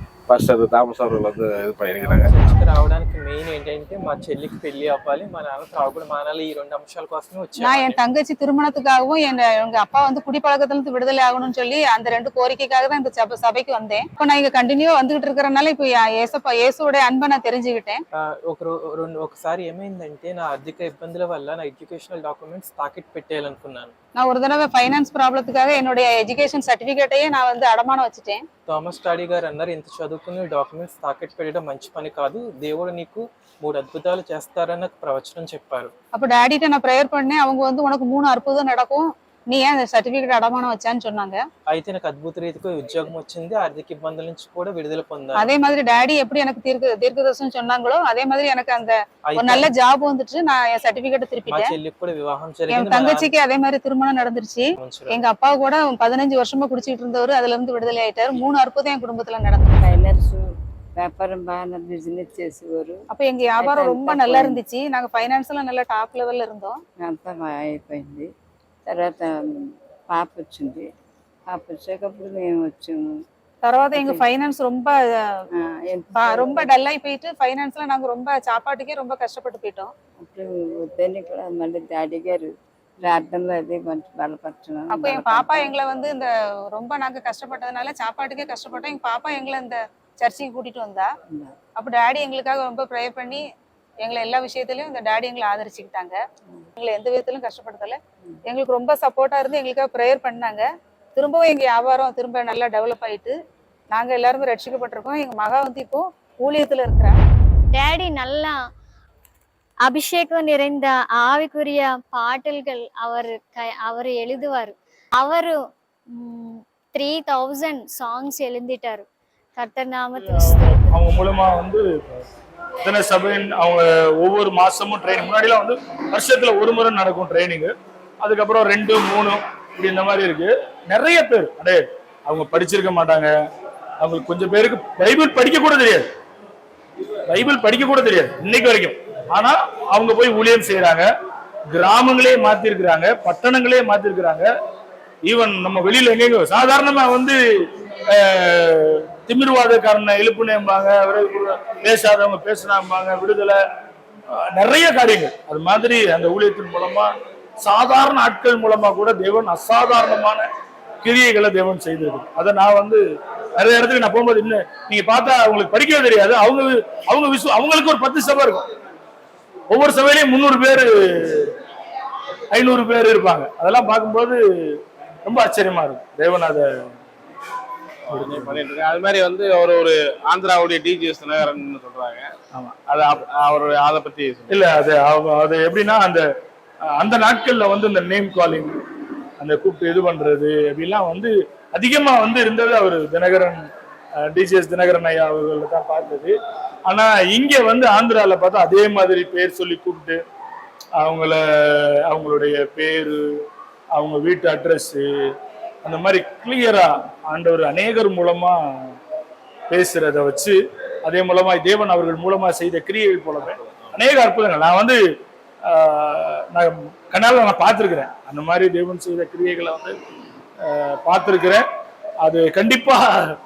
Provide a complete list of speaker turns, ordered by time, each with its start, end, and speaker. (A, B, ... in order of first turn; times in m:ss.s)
0:00.3-0:02.3 A
0:02.0-0:08.0 B
0:07.6-0:18.0 C
0:18.2-0:23.9 B
0:24.2-0:28.4 C
0:28.7-0:35.9 B
0:36.1-0:41.4 C
0:41.7-0:45.5 B
0:45.4-0:51.8 C
0:49.3-0:49.7 B
0:51.5-0:53.3 B
0:52.7-1:00.0 C
0:54.8-0:55.2 B
0:59.8-1:00.4 D
1:01.0-1:03.0 D
1:03.1-1:06.8 C
1:03.6-1:04.6 D
1:07.0-1:08.3 D
1:08.9-1:09.5 D
1:10.1-1:10.9 D
1:11.5-1:13.1 D
1:13.6-1:15.4 C
1:15.6-1:16.6 D
1:16.2-1:19.9 C
1:20.3-1:22.5 D
1:23.0-1:25.6 D
1:24.9-1:31.1 C
1:31.8-1:33.4 C
1:34.0-1:36.2 C
1:36.8-1:43.3 C
1:43.9-1:47.1 C
1:47.7-1:48.6 E
1:49.8-2:01.2 E
2:00.2-2:02.2 F
2:02.8-2:13.3 F
2:14.0-2:16.0 F
2:17.3-2:21.1 F
2:21.7-2:24.5 F
2:25.2-2:27.4 F
2:28.1-2:33.6 F
2:34.5-2:37.1 F
2:37.6-2:40.4 F
2:41.0-2:43.0 F
2:43.6-2:48.6 F
2:49.7-2:51.5 F
2:52.5-2:54.4 F
2:55.2-2:56.6 F
2:58.1-3:04.7 A
2:58.1-2:58.5 F
3:04.5-3:06.2 F
3:07.0-3:08.7 F
3:09.4-3:13.6 F
3:14.3-3:16.3 F
3:16.9-3:20.2 F
3:21.0-3:23.2 F
3:23.9-3:25.0 F
3:25.8-3:28.6 F
3:29.7-3:35.0 F
3:35.7-3:40.0 F
3:40.7-3:41.6 F
3:42.2-3:43.3 F